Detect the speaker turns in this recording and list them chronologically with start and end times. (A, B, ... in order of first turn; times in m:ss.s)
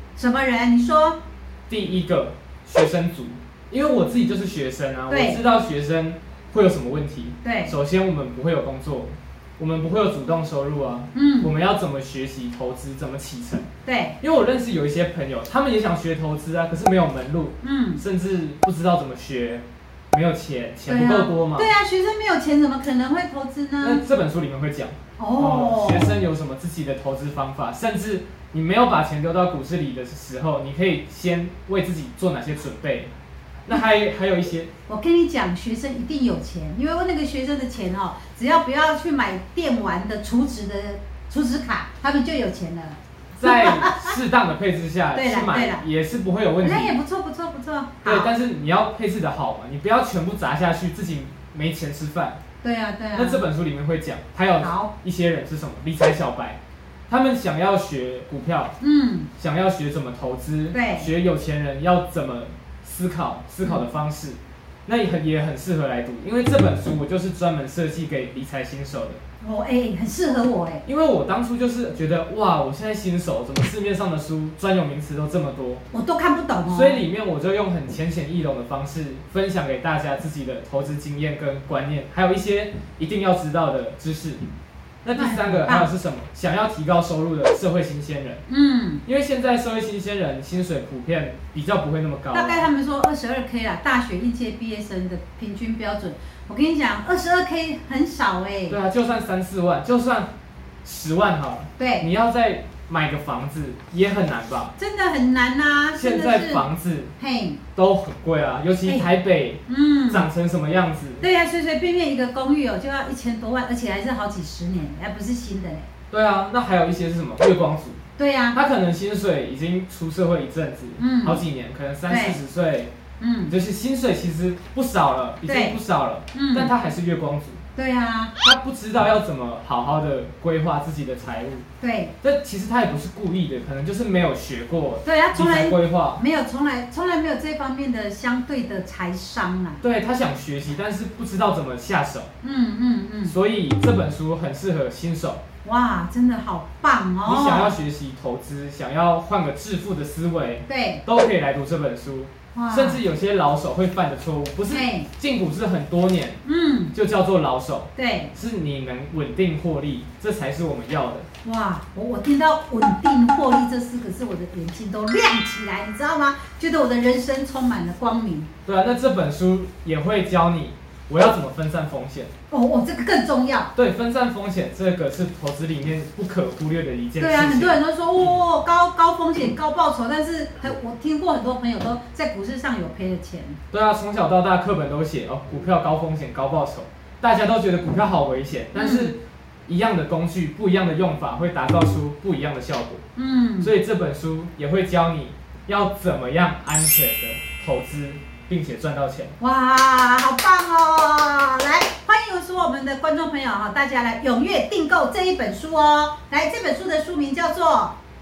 0:00.2-0:01.2 A
0:01.7-0:13.7 B
0:05.1-0:05.4 A
0:07.4-0:07.7 A
0:11.1-0:11.5 A
0:13.9-0:14.2 A
0:14.2-0:21.7 B
0:17.6-0:18.0 A
0:20.9-0:24.0 A
0:23.8-0:33.1 B
0:25.2-0:26.2 A
0:33.6-0:34.7 B
0:34.9-0:44.2 A
0:43.3-0:47.0 B
0:45.1-0:45.8 A
0:46.6-0:48.3 A
0:48.0-0:52.4 B
0:52.6-0:53.4 A
0:53.1-0:58.8 B
0:54.6-0:54.9 A
0:58.8-0:59.3 A
0:59.4-1:09.2 B
1:00.7-1:01.1 A
1:09.4-1:10.8 A
1:10.8-1:15.8 B
1:15.9-1:17.0 A
1:16.7-1:24.4 B
1:25.0-1:28.4 B
1:25.2-1:25.9 A
1:28.5-1:29.0 A
1:29.1-1:32.7 B
1:32.3-1:38.8 A
1:38.7-1:40.3 B
1:40.8-1:44.8 B
1:41.8-1:42.1 A
1:44.8-1:46.7 A
1:46.0-1:47.1 B
1:47.2-1:47.6 A
1:47.8-1:51.3 B
1:49.7-1:50.3 A
1:51.2-1:55.9 A
1:56.1-1:58.0 B
1:58.2-1:58.6 A
1:58.5-2:02.9 B
2:01.0-2:01.4 A
2:02.1-2:02.4 A
2:03.2-2:03.5 A
2:03.5-2:07.6 B
2:05.4-2:05.8 A
2:06.3-2:06.7 A
2:07.8-2:08.3 A
2:08.4-2:11.7 B
2:11.8-2:12.1 A
2:12.2-2:16.2 B
2:15.0-2:19.8 A
2:19.8-2:22.3 B
2:22.4-2:23.3 A
2:23.2-2:25.4 B
2:25.6-2:27.8 A
2:27.2-2:36.4 B
2:30.7-2:31.0 A
2:32.5-2:33.0 A
2:34.7-2:35.1 A
2:36.4-2:36.9 A
2:36.9-2:41.3 B
2:38.0-2:38.3 A
2:41.4-2:48.5 A
2:48.7-2:52.3 B
2:52.5-2:53.7 A
2:53.8-2:57.8 B
2:57.2-3:03.6 A
3:03.7-3:13.0 B
3:08.8-3:09.1 A
3:13.2-3:13.7 A
3:13.6-3:19.3 B
3:19.4-3:27.9 A